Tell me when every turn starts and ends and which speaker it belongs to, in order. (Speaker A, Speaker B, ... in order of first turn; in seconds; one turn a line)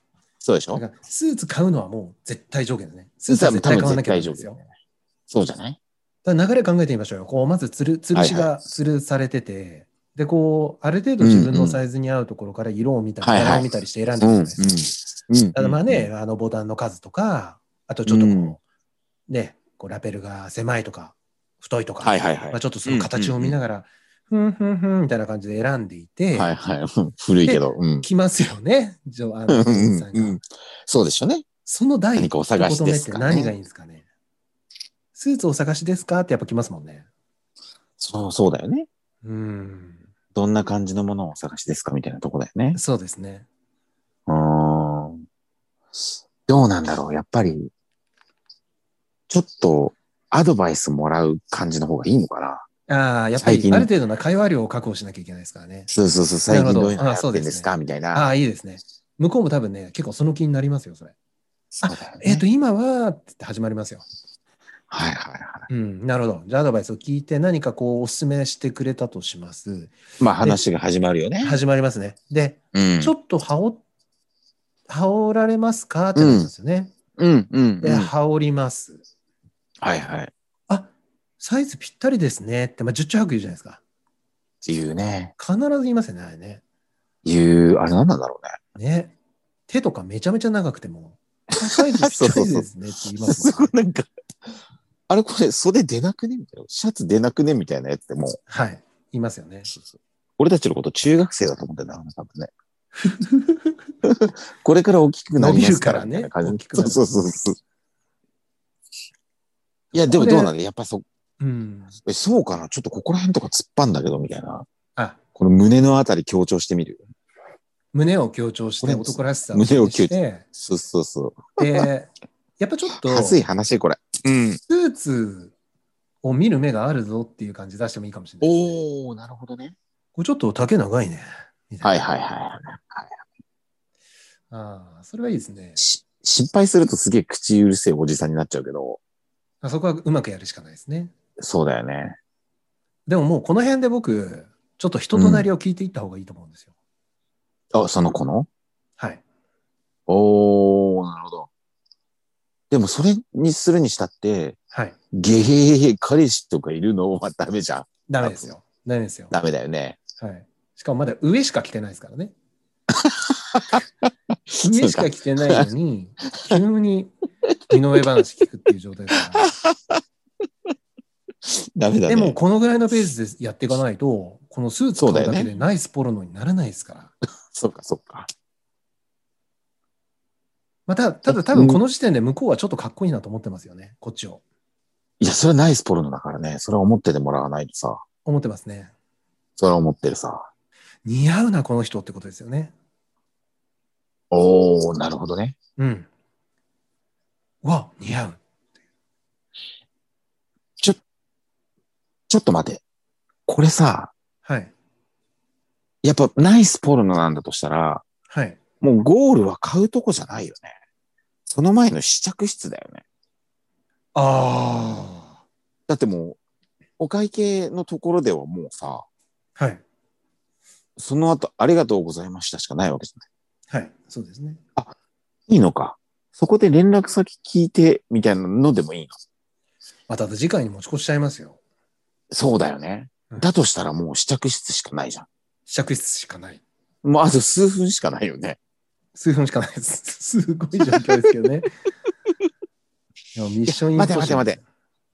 Speaker A: 0.4-0.8
Speaker B: 0.7-4.6
Speaker A: 3.3-4.5
Speaker A: 5.3-5.8
Speaker B: 6.2-14.6
Speaker A: 8.1-8.5
Speaker A: 11.2-11.8
Speaker A: 13.2-13.7
Speaker A: 14.2-16.1
Speaker B: 15.5-18.6
Speaker A: 18.1-18.6
Speaker B: 19.3-26.5
Speaker A: 22.0-23.6
Speaker A: 26.3-28.1
Speaker B: 27.4-30.4
Speaker A: 29.5-31.4
Speaker B: 31.6-34.0
Speaker A: 32.1-33.5
Speaker B: 35.1-37.0
Speaker A: 38.0-38.9
Speaker B: 39.2-40.0
Speaker A: 40.3-42.8
Speaker B: 42.7-43.5
Speaker A: 44.3-45.2
Speaker A: 45.9-47.7
Speaker A: 49.3-52.7
Speaker B: 52.9-55.9
Speaker A: 53.4-53.9
Speaker A: 55.9-58.3
Speaker B: 56.5-61.1
Speaker A: 61.7-62.4
Speaker B: 61.8-64.0
Speaker A: 64.9-65.7
Speaker B: 65.7-70.6
Speaker A: 70.2-71.6
Speaker B: 71.4-73.8
Speaker A: 72.7-73.1
Speaker B: 74.9-76.9
Speaker A: 76.1-76.5
Speaker A: 77.2-78.1
Speaker B: 77.8-79.0
Speaker A: 79.8-80.3
Speaker B: 80.7-83.8
Speaker A: 84.6-85.3
Speaker B: 85.4-86.6
Speaker A: 87.2-88.5
Speaker B: 88.7-89.1
Speaker B: 89.7-93.7
Speaker A: 91.5-92.7
Speaker A: 93.2-94.1
Speaker A: 95.1-98.4
Speaker B: 98.5-99.7
Speaker A: 99.7-102.5
Speaker B: 103.0-103.8
Speaker A: 104.0-107.6
Speaker B: 105.4-107.0
Speaker B: 109.9-110.5
Speaker A: 109.9-111.0
Speaker B: 111.4-111.9
Speaker A: 112.0-114.7
Speaker A: 115.3-117.0
Speaker B: 117.9-120.4
Speaker A: 118.8-121.8
Speaker B: 121.6-123.4
Speaker A: 123.0-124.6
Speaker B: 124.7-125.5
Speaker B: 126.2-128.8
Speaker A: 128.4-129.7
Speaker B: 130.1-132.0
Speaker A: 131.8-133.2
Speaker B: 134.5-135.8
Speaker A: 135.8-139.0
Speaker B: 139.6-141.1
Speaker A: 141.4-142.2
Speaker B: 143.1-146.7
Speaker A: 145.1-145.5
Speaker A: 147.7-148.5
Speaker A: 150.1-151.5
Speaker A: 152.7-154.6
Speaker B: 154.7-155.0
Speaker A: 155.1-158.5
Speaker B: 158.1-159.3
Speaker A: 159.3-160.0
Speaker B: 160.2-162.3
Speaker A: 162.9-165.7
Speaker B: 164.6-167.1
Speaker B: 167.7-169.5
Speaker A: 169.1-170.0
Speaker A: 171.5-172.3
Speaker B: 172.1-177.1
Speaker A: 175.0-175.5
Speaker A: 177.5-178.3
Speaker B: 180.9-184.4
Speaker A: 181.3-181.8
Speaker A: 185.2-188.0
Speaker B: 188.2-188.9
Speaker A: 189.6-190.5
Speaker B: 191.0-192.7
Speaker A: 194.3-195.6
Speaker B: 195.8-196.1
Speaker B: 197.6-198.4
Speaker A: 202.3-202.8
Speaker A: 203.5-204.1
Speaker B: 204.4-204.7
Speaker A: 206.0-208.0
Speaker B: 208.3-208.6
Speaker A: 208.8-210.7
Speaker A: 211.5-213.0
Speaker B: 214.1-215.4
Speaker A: 215.9-216.4
Speaker A: 217.0-219.1
Speaker B: 219.6-219.8
Speaker A: 221.0-223.2
Speaker B: 223.7-224.6
Speaker A: 225.5-229.2
Speaker B: 230.1-231.6
Speaker A: 232.3-235.3
Speaker B: 235.7-236.6
Speaker A: 237.0-238.6
Speaker B: 239.2-241.7
Speaker B: 243.3-244.6
Speaker A: 243.7-244.6